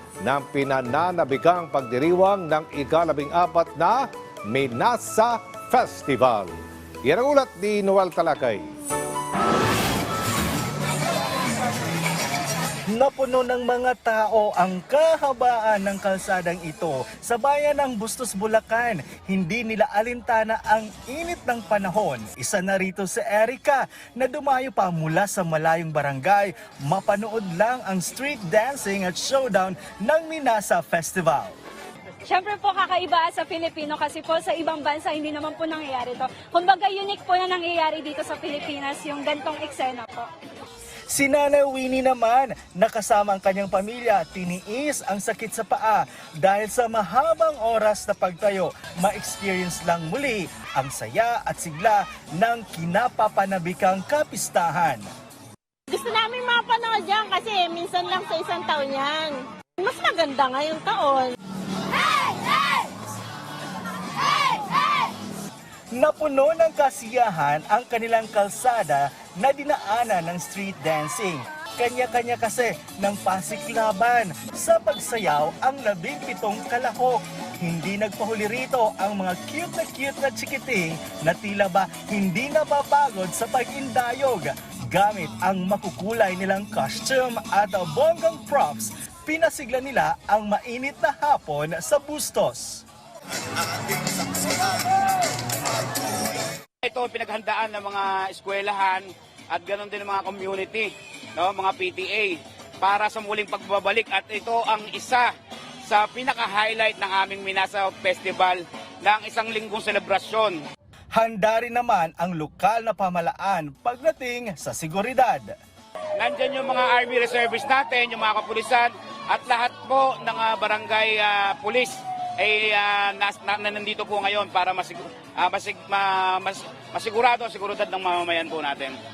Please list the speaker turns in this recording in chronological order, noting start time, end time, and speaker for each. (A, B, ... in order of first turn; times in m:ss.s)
0:00.2-0:08.7 A
0:12.9-0:31.6 B
0:32.2-0:40.3 C
0:41.1-0:55.1 B
0:55.9-1:01.4 D
1:05.9-1:32.8 B
1:36.8-1:45.3 E
1:45.8-1:50.6 E
1:51.1-1:55.5 B
1:56.2-2:09.0 E